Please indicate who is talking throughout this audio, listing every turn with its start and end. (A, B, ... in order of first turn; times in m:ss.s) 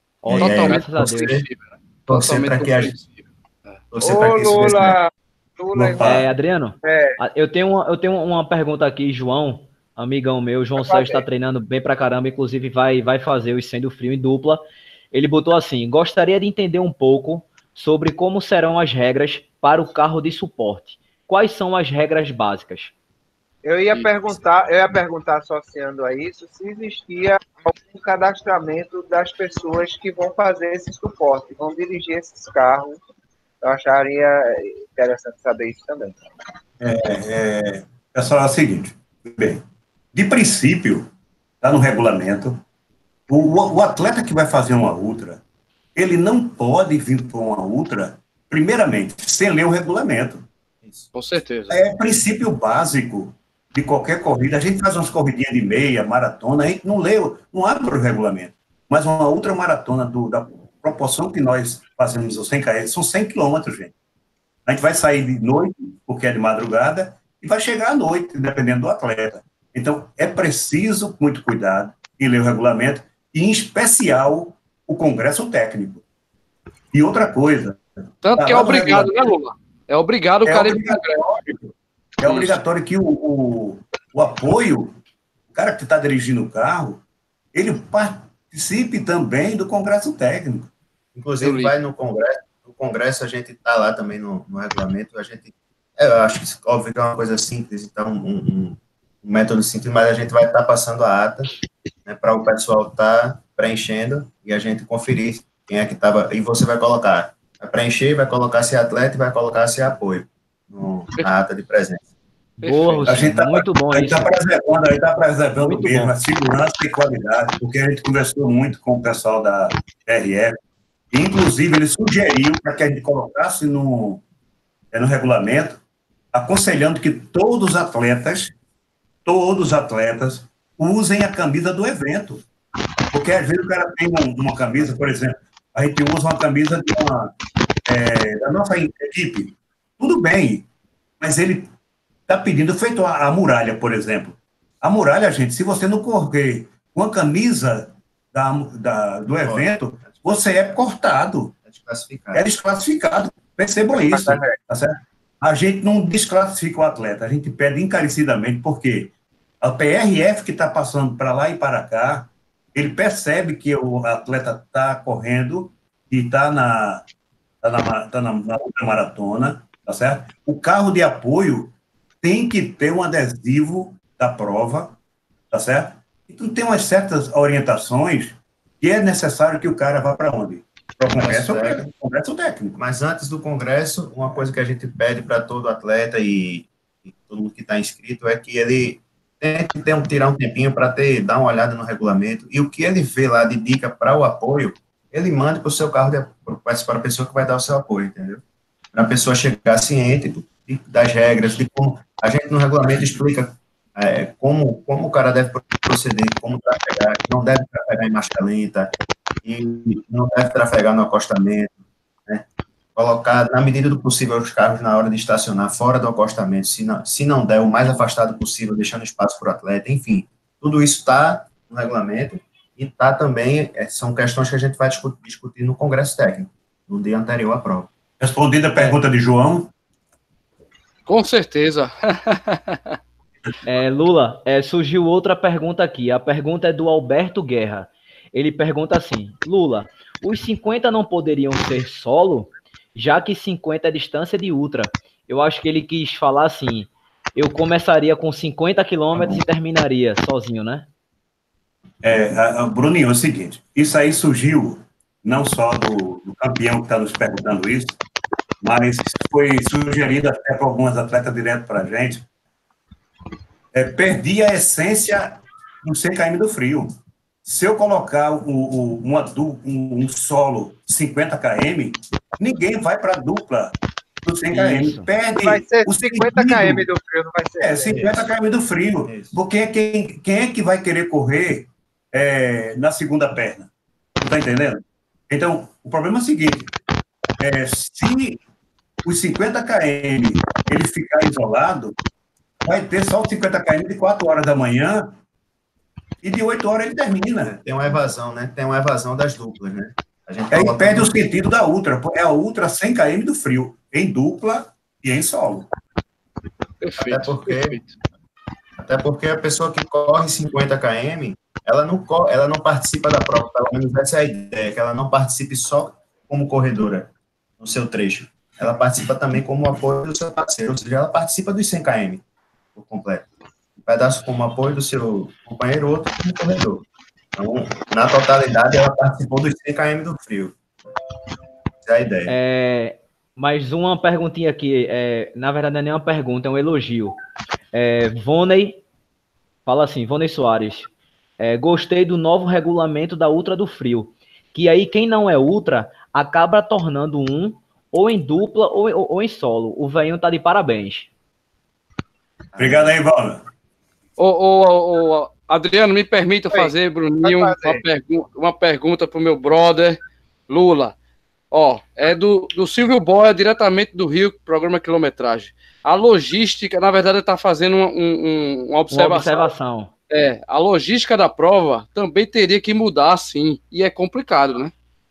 0:00.2-0:01.5 A
0:00.2-0:01.4 B
0:00.4-0:03.8 C
0:02.1-0:03.0 A
0:03.9-0:05.0 A
0:04.0-0:06.2 D
0:05.7-0:06.3 E
0:06.0-0:22.9 B
0:06.8-0:07.2 D
0:10.8-0:11.2 D
0:23.6-0:33.0 D
0:33.6-0:36.3 D
0:36.8-0:39.6 E
0:40.1-0:41.1 E
0:41.6-0:42.6 E
0:43.3-0:45.4 E
0:45.9-0:50.5 E
0:51.1-0:51.8 C
0:51.7-1:03.9 E
1:04.6-1:16.0 E
1:16.9-1:17.8 E
1:18.2-1:21.2 C
1:18.3-1:19.3 E
1:20.4-1:24.9 E
1:22.2-1:22.6 C
1:25.5-1:27.0 E
1:27.5-1:30.7 E
1:31.1-1:41.5 A
1:31.4-1:31.7 C
1:42.0-1:52.0 A
1:52.6-1:53.1 C
1:52.6-1:54.4 B
1:53.0-2:00.6 E
1:55.6-1:56.1 B
2:01.1-2:04.2 E
2:04.9-2:05.8 E
2:06.3-2:08.5 E
2:09.2-2:12.4 E
2:13.1-2:17.3 E
2:17.8-2:20.7 E
2:21.2-2:21.7 E
2:22.3-2:31.6 E
2:29.4-2:30.5 A
2:31.6-2:32.4 A
2:32.3-2:47.0 E
2:33.9-2:34.6 D
2:47.6-2:55.0 E
2:55.5-3:02.8 E
3:01.0-3:01.8 A
3:02.8-3:18.4 A
3:18.9-3:28.9 A
3:29.4-3:31.7 A
3:32.3-3:47.9 A
3:48.2-3:49.7 E
3:51.0-3:52.9 C
3:53.6-4:10.9 B
4:12.0-4:18.0 E
4:18.6-4:22.2 E
4:23.7-4:26.9 E
4:27.4-4:36.8 E
4:34.5-4:35.1 B
4:35.4-4:38.2 D
4:37.6-4:46.7 E
4:37.9-4:38.2 A
4:39.0-4:39.4 A
4:47.4-4:48.4 E
4:49.0-4:52.0 E
4:52.6-4:55.2 E
4:56.2-4:57.5 E
4:57.4-5:01.2 A
5:00.5-5:05.7 E
5:06.8-5:07.9 C
5:07.0-5:07.8 A
5:08.8-5:22.2 A
5:22.7-5:30.5 A
5:31.8-5:32.3 A
5:32.3-5:37.1 B
5:37.7-5:38.8 B
5:39.6-5:51.1 B
5:52.5-5:52.9 A
5:52.6-5:53.4 E
5:54.2-6:00.9 C
5:56.5-5:57.8 D
6:01.5-6:09.5 C
6:08.9-6:09.9 B
6:10.1-6:14.7 C